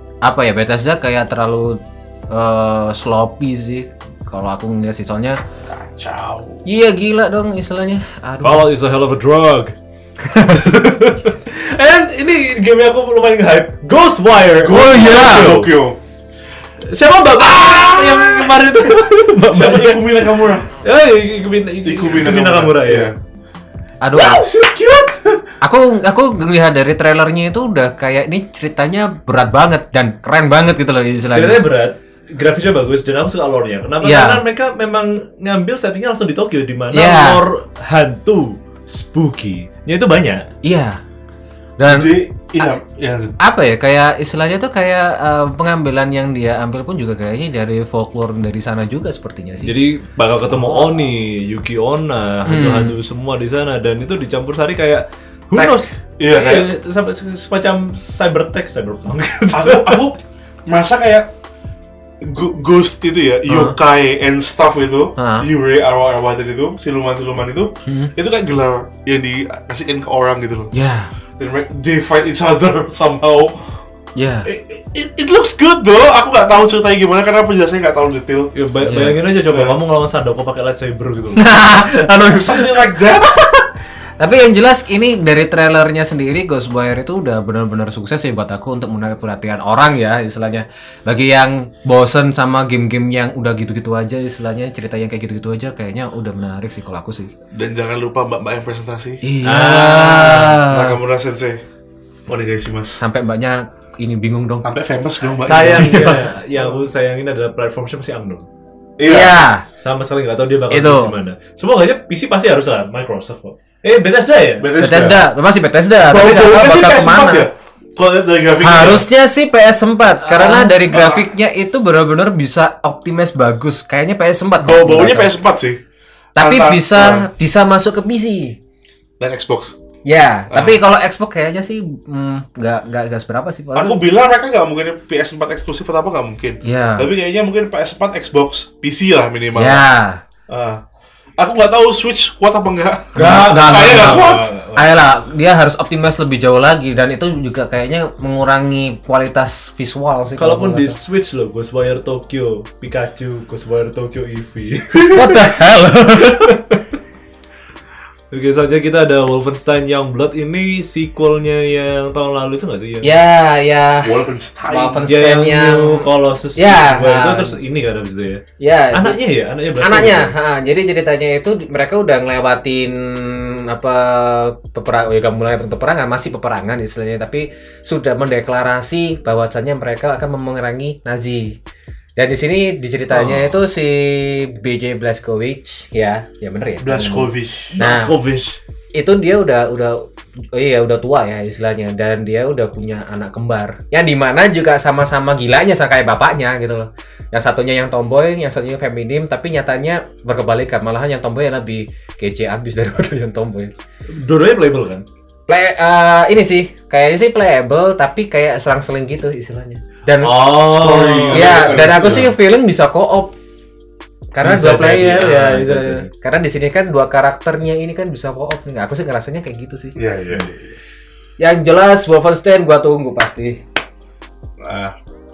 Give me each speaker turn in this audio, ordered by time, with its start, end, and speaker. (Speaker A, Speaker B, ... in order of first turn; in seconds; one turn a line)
Speaker A: 0.2-5.4
Speaker B: 5.7-6.6
Speaker A: 6.6-8.7
Speaker C: 8.4-9.7
Speaker A: 10.2-10.7
Speaker C: 10.5-15.7
Speaker B: 14.6-16.0
Speaker A: 14.7-15.7
Speaker C: 16.9-23.1
Speaker B: 17.4-18.8
Speaker B: 19.5-20.7
Speaker B: 21.8-23.1
Speaker A: 24.0-24.5
Speaker B: 24.2-25.4
Speaker A: 25.6-31.6
Speaker C: 31.3-40.5
Speaker A: 34.0-34.4
Speaker A: 36.9-37.4
Speaker A: 40.6-41.0
Speaker A: 41.8-42.7
Speaker B: 41.9-43.4
Speaker A: 43.4-49.7
Speaker C: 49.6-60.0
Speaker A: 52.4-53.0
Speaker B: 55.5-56.7
Speaker B: 59.5-61.3
Speaker B: 62.2-70.7
Speaker A: 63.5-63.8
Speaker A: 65.2-65.5
Speaker A: 67.8-68.1
Speaker A: 70.7-71.1
Speaker B: 71.4-73.7
Speaker A: 74.2-74.5
Speaker B: 74.5-78.5
Speaker C: 78.5-81.5
Speaker A: 78.8-79.2
Speaker B: 79.5-79.7
Speaker A: 81.3-82.7
Speaker B: 81.8-83.4
Speaker A: 83.2-83.5
Speaker A: 84.2-97.3
Speaker B: 97.5-99.2
Speaker A: 99.2-101.0
Speaker C: 99.4-100.3
Speaker B: 99.9-101.6
Speaker B: 102.3-103.0
Speaker A: 103.0-104.7
Speaker B: 104.6-106.7
Speaker C: 105.4-108.5
Speaker A: 105.8-106.2
Speaker B: 109.0-109.4
Speaker A: 109.0-109.7
Speaker C: 109.8-114.7
Speaker A: 110.7-111.1
Speaker B: 114.6-115.2
Speaker A: 114.8-117.5
Speaker B: 116.0-119.0
Speaker A: 118.6-125.3
Speaker C: 120.3-120.6
Speaker B: 120.3-121.3
Speaker B: 124.6-125.8
Speaker A: 126.3-128.6
Speaker B: 126.4-127.2
Speaker B: 129.2-129.7
Speaker A: 130.0-134.0
Speaker B: 130.5-130.8
Speaker B: 133.7-139.8
Speaker A: 136.6-137.1
Speaker A: 139.5-140.2
Speaker B: 140.5-140.8
Speaker B: 141.4-144.5
Speaker C: 143.1-144.8
Speaker A: 143.2-151.0
Speaker C: 150.4-155.3
Speaker A: 155.1-156.6
Speaker C: 158.3-163.1
Speaker A: 163.0-167.6
Speaker B: 164.0-165.0
Speaker C: 165.0-170.3
Speaker A: 168.6-169.2
Speaker A: 169.8-181.6
Speaker A: 182.2-188.1
Speaker C: 183.1-183.6
Speaker B: 186.8-187.8
Speaker C: 187.8-188.6
Speaker A: 188.9-203.7
Speaker C: 204.1-205.0
Speaker A: 205.5-210.6
Speaker C: 210.2-211.6
Speaker B: 210.6-212.3
Speaker A: 211.3-213.3
Speaker A: 214.3-220.0
Speaker C: 214.4-216.1
Speaker B: 219.9-220.7
Speaker A: 221.4-223.6
Speaker B: 224.6-224.9